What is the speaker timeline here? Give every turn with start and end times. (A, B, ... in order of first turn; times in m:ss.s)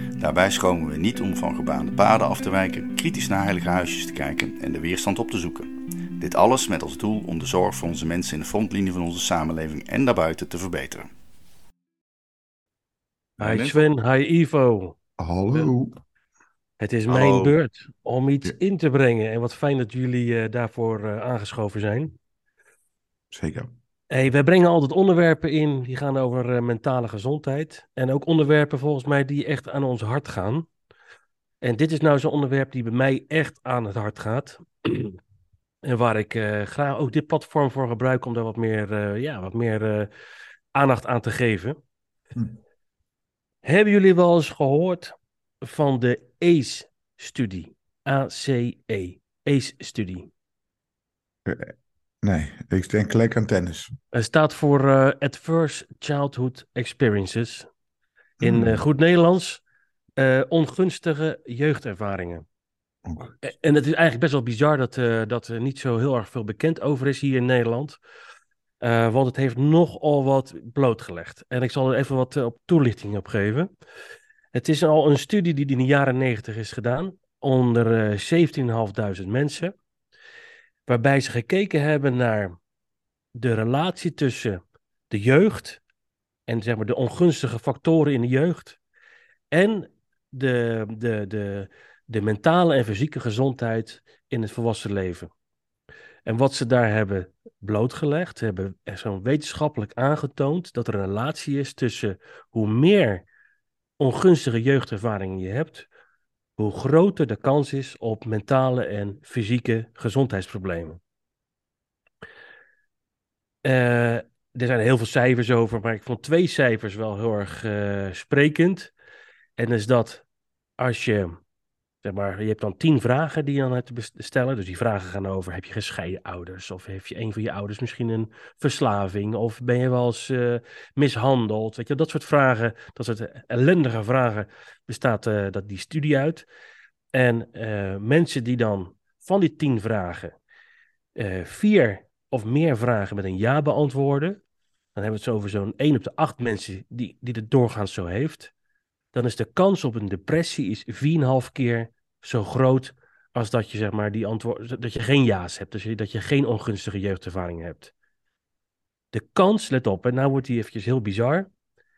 0:00.2-0:11.1 A
0:13.4-0:13.8 A
0:13.4-0:15.0 B
0:15.2-0:16.0 C
0:16.8-0:22.1 B
0:17.1-0:17.6 A
0:23.3-0:23.7 C
0:24.1-0:30.7 B
0:31.6-0:35.2 B
0:35.8-0:40.1 B
0:40.7-0:41.8 B
0:43.6-0:50.3 B
0:51.4-0:53.9 C
0:54.1-0:57.7 B
0:58.4-0:58.8 C
0:58.4-0:59.6 B
1:00.2-1:02.4 B
1:03.1-1:03.3 C
1:03.4-1:08.0 B
1:08.8-1:13.7 B
1:14.5-1:19.7 B
1:20.9-1:22.6 B
1:23.3-1:25.8 B
1:26.5-1:28.8 B
1:29.5-1:35.3 B
1:36.2-1:43.2 B
1:44.0-1:45.9 B
1:46.6-1:51.0 B
1:53.6-1:58.9 B
1:59.6-2:00.2 B
2:00.8-2:01.4 B
2:02.0-2:16.4 B
2:17.1-2:20.3 B
2:21.2-2:24.4 B
2:24.9-2:28.5 B
2:29.1-2:37.9 B
2:39.1-2:41.5 B